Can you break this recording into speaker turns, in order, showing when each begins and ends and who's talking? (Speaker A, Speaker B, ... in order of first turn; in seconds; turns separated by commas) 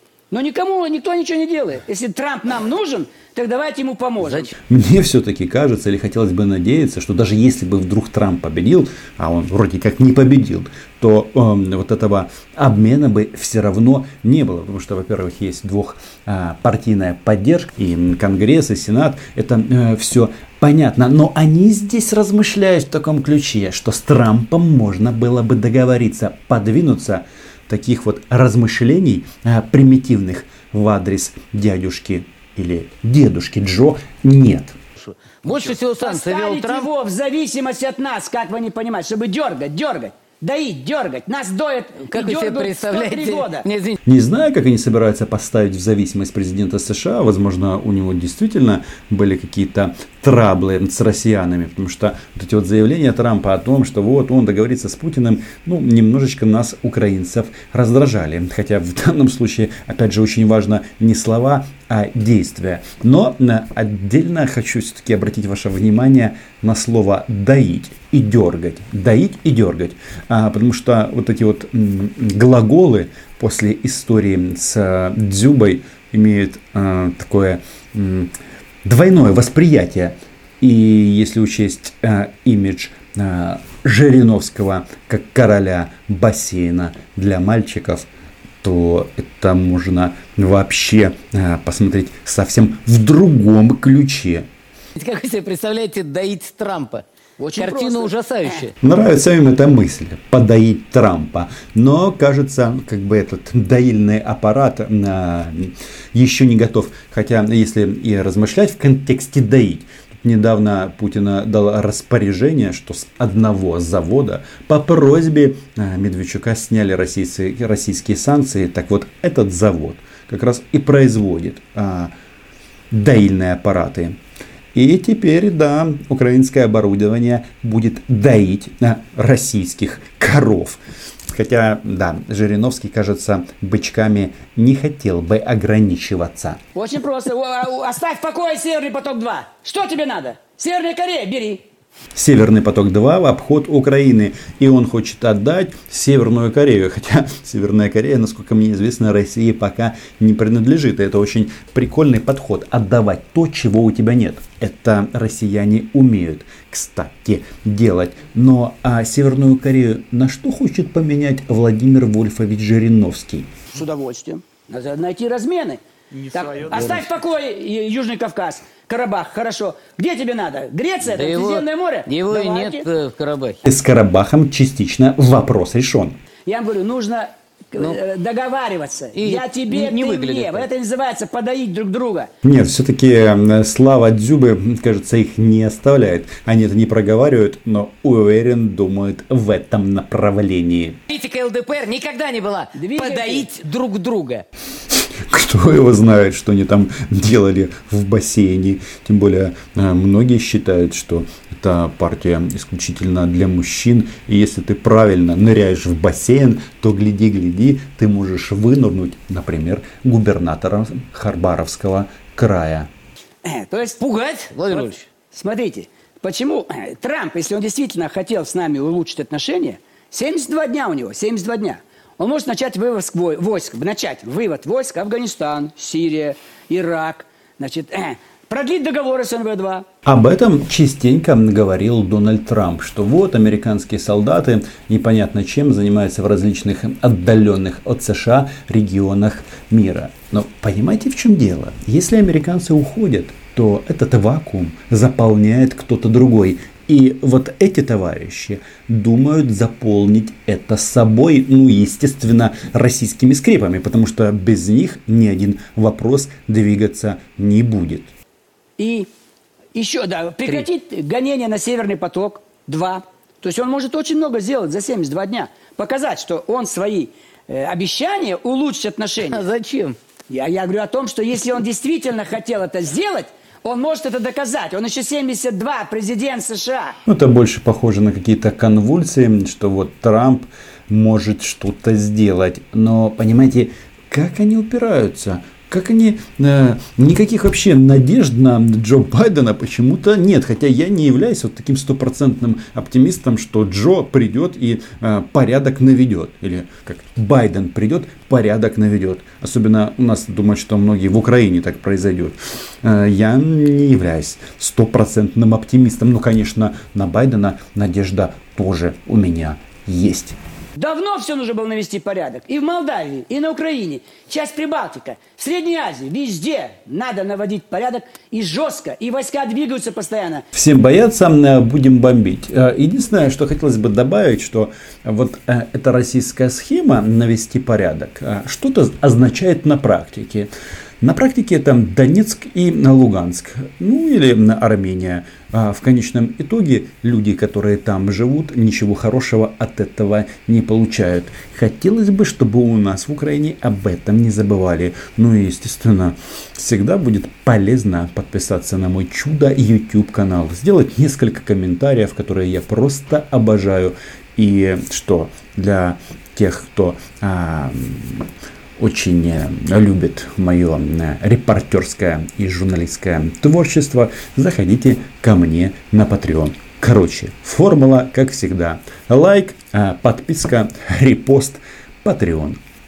Speaker A: 0.3-4.5, Speaker B: 4.7-34.8, Speaker C: 35.0-36.9, Speaker A: 35.5-43.6, Speaker C: 42.1-44.0, Speaker B: 44.0-78.3, Speaker B: 78.8-88.1, Speaker B: 88.6-94.5, Speaker C: 95.0-97.0, Speaker A: 97.4-98.7, Speaker C: 97.5-98.7, Speaker B: 98.8-122.1, Speaker B: 122.9-124.2, Speaker B: 124.7-136.6, Speaker A: 136.7-141.6, Speaker B: 142.1-163.5, Speaker A: 163.7-172.9, Speaker C: 171.0-173.6, Speaker B: 173.6-176.2, Speaker A: 176.4-182.3, Speaker C: 179.1-180.7, Speaker B: 182.4-191.0, Speaker C: 191.1-194.4, Speaker A: 192.8-193.5, Speaker B: 195.2-212.9, Speaker A: 213.4-214.1, Speaker C: 214.0-215.1, Speaker A: 214.7-229.8, Speaker B: 230.0-258.1, Speaker A: 258.8-259.1, Speaker A: 259.7-269.4, Speaker C: 269.2-270.0, Speaker A: 270.3-277.0, Speaker B: 277.1-310.4, Speaker A: 310.8-320.4, Speaker B: 320.5-372.6